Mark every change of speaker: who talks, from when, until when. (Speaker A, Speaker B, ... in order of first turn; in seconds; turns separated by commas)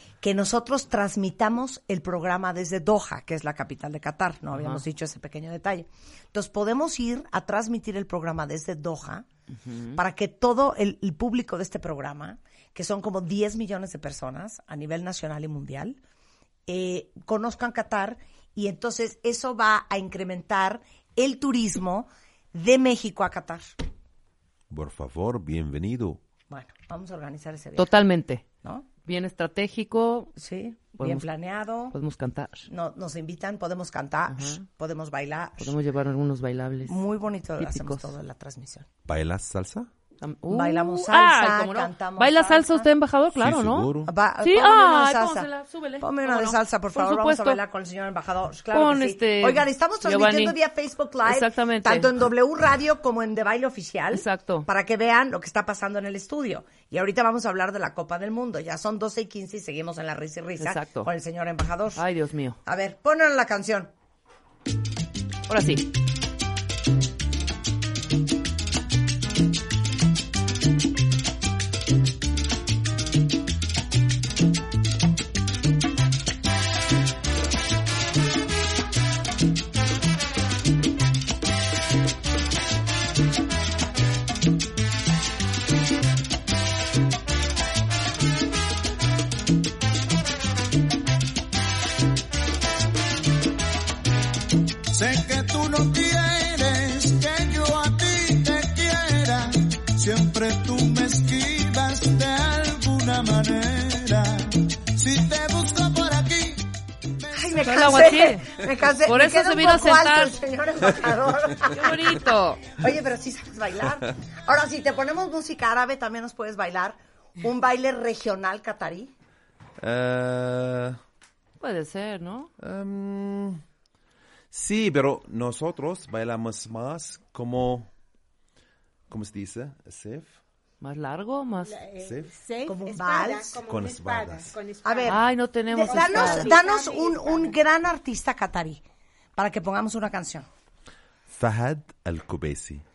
Speaker A: 0.2-9.2, Speaker B: 4.5-4.8, Speaker B: 9.7-10.0, Speaker A: 9.9-16.0, Speaker A: 16.7-23.7, Speaker C: 24.7-26.2, Speaker A: 26.5-27.9, Speaker B: 27.8-28.4, Speaker B: 29.1-30.3, Speaker A: 30.4-31.9, Speaker B: 31.0-31.2, Speaker B: 31.9-32.7, Speaker A: 32.7-35.7, Speaker B: 34.3-34.6, Speaker B: 35.6-37.0, Speaker A: 36.9-38.9, Speaker B: 37.6-38.1, Speaker C: 39.1-39.9, Speaker B: 40.2-47.6, Speaker A: 40.5-42.9, Speaker C: 43.4-44.1, Speaker A: 44.0-45.5, Speaker A: 46.0-62.0, Speaker B: 48.7-50.6, Speaker B: 51.2-52.1, Speaker B: 54.1-54.7, Speaker B: 60.6-61.1, Speaker B: 62.0-62.6, Speaker A: 62.6-63.9, Speaker B: 65.5-65.9, Speaker D: 94.9-106.7, Speaker A: 107.3-119.1, Speaker B: 107.6-110.4, Speaker B: 111.7-112.6, Speaker C: 119.8-121.0, Speaker B: 121.6-122.5, Speaker C: 122.6-123.6, Speaker C: 124.5-127.9, Speaker C: 129.1-130.4, Speaker B: 130.8-131.9, Speaker E: 131.6-135.2, Speaker C: 132.0-132.3, Speaker A: 132.7-133.6, Speaker C: 133.7-134.5, Speaker A: 134.8-138.8, Speaker B: 135.1-136.6, Speaker E: 135.8-137.6, Speaker A: 139.3-140.5, Speaker C: 141.3-142.8